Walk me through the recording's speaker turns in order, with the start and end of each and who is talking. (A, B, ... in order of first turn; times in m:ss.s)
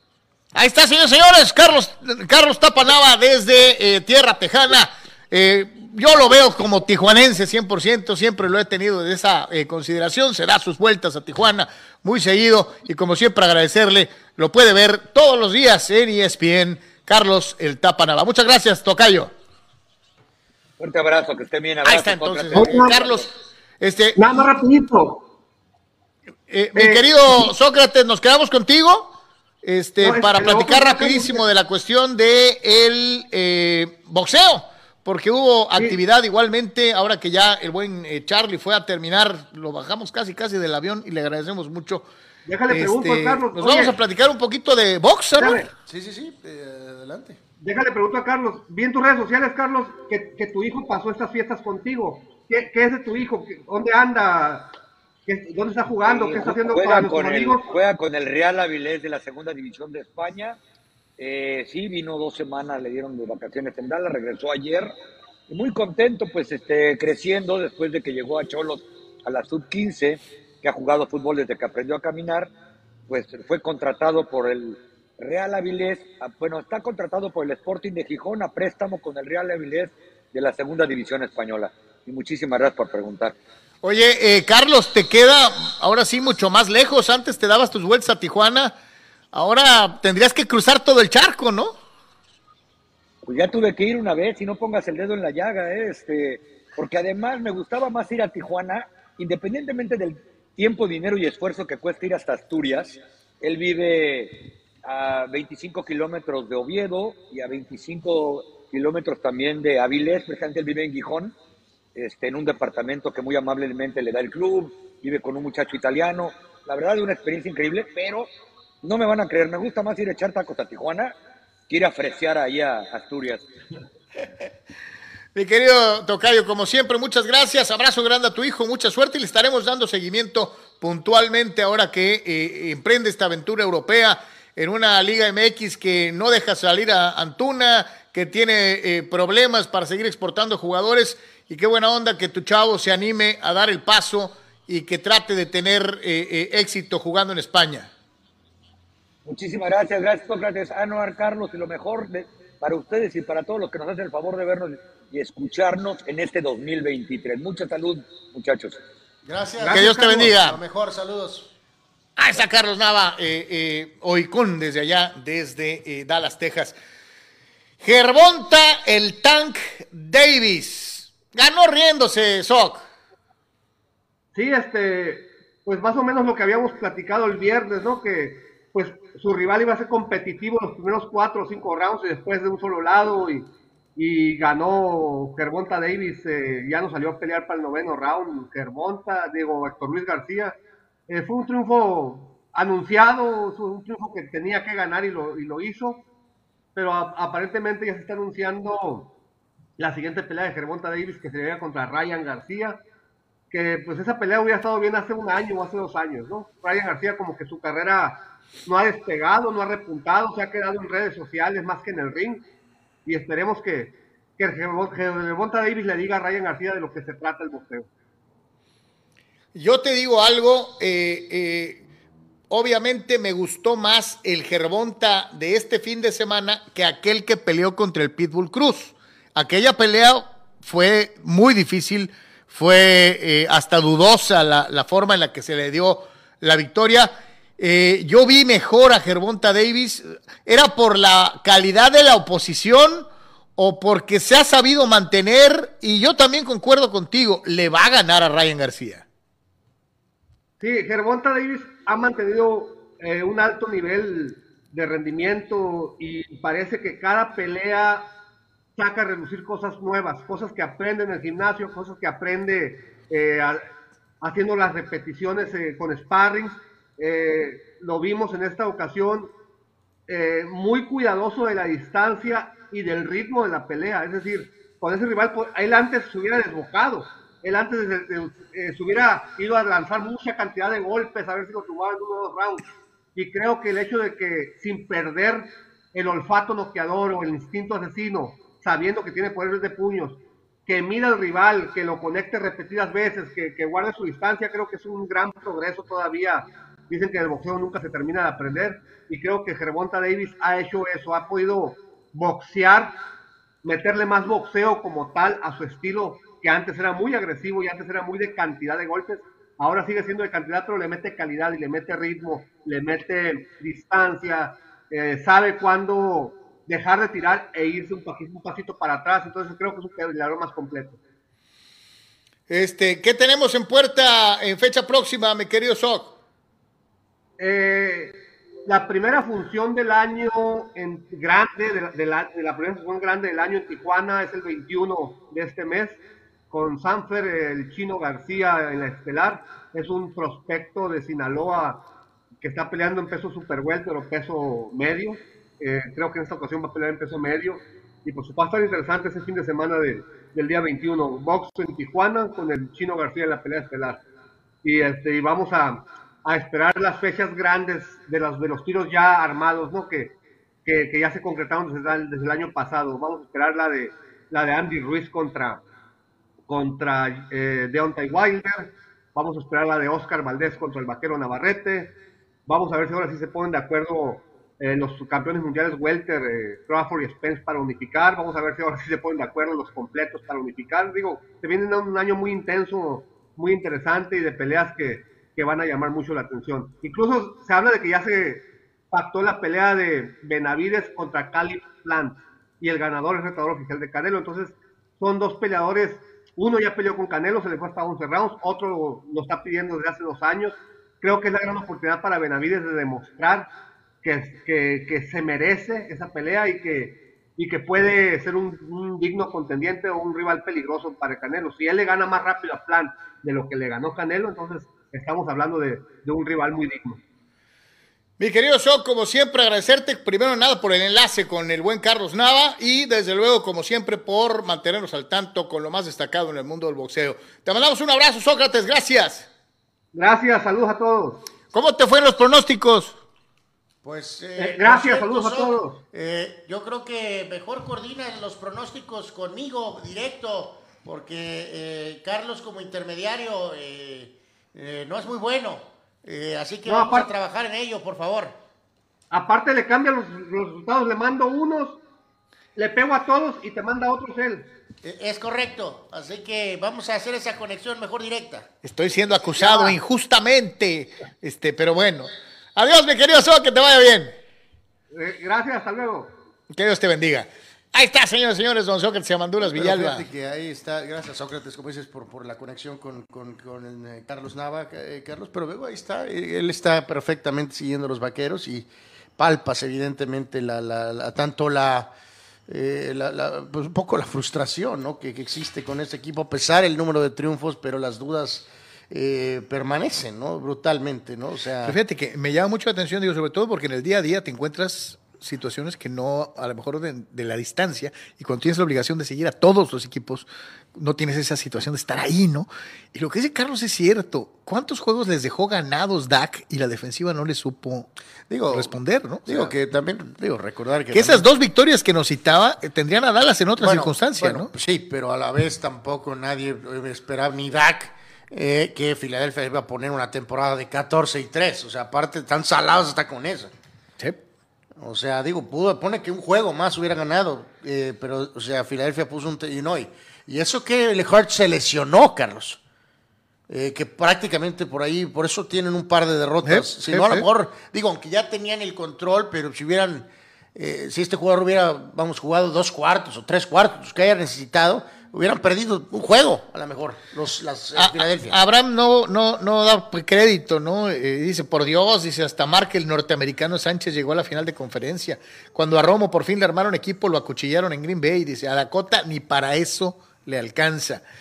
0:00.5-0:19.3 A
0:20.8-0:23.3 B
0:21.8-0:24.4 A
0:22.5-0:22.9 C
0:24.2-0:25.2 C
0:26.5-0:29.1 A
0:26.8-0:27.1 C
0:29.6-0:42.1 A
0:30.0-0:31.4 C
0:42.4-0:44.0 C
0:42.7-0:45.7 A
0:45.4-0:45.7 C
0:45.9-0:47.4 D
0:47.6-0:54.7 C
0:55.3-0:57.7 C
0:56.0-1:00.6 B
1:01.2-1:04.9 B
1:05.5-1:12.5 B
1:13.1-1:23.4 B
1:23.8-1:28.7 A
1:29.3-1:31.7 A
1:33.2-1:51.4 B
1:51.9-1:58.3 B
1:58.8-2:01.1 B
2:01.7-2:03.5 B
2:05.3-2:27.9 A
2:29.2-2:38.8 B
2:39.2-2:41.5 D
2:39.6-2:40.2 C
2:39.6-2:40.6 A
2:42.2-2:46.7 A
2:47.8-2:52.8 A
2:54.3-3:10.6 C
3:11.1-3:16.0 C
3:16.7-3:19.1 C
3:19.8-3:22.8 C
3:23.5-3:32.4 C
3:33.0-3:37.9 C
3:39.5-3:41.9 A
3:42.5-4:09.0 A
4:10.6-4:18.1 C
4:18.8-4:23.6 C
4:24.2-4:29.3 C
4:30.1-5:03.0 C
5:03.6-5:21.0 C
5:22.5-5:26.1 A
5:27.4-5:41.8 C
5:42.4-5:54.0 C
5:54.6-6:05.6 C
6:06.5-6:43.5 C
6:44.0-6:57.0 C
6:58.2-7:09.3 A
7:09.9-7:11.2 C
7:11.5-7:13.0 A
7:13.8-7:28.4 D
7:14.4-7:15.8 C
7:26.6-7:27.1 C
7:29.1-7:31.8 C
7:32.6-7:34.5 C
7:34.8-7:38.5 D
7:38.6-7:44.2 A
7:39.4-7:39.8 C
7:44.9-7:46.1 C
7:46.5-7:50.0 A
7:49.5-8:01.9 D
8:02.5-8:11.8 D
8:11.6-8:27.9 A
8:28.3-8:28.7 D
8:28.5-8:29.5 A
8:29.2-8:31.2 D
8:30.9-8:34.5 A
8:33.6-8:43.5 D
8:44.8-8:52.6 D
8:53.5-9:08.4 D
8:56.4-8:57.3 A
9:07.7-9:21.0 A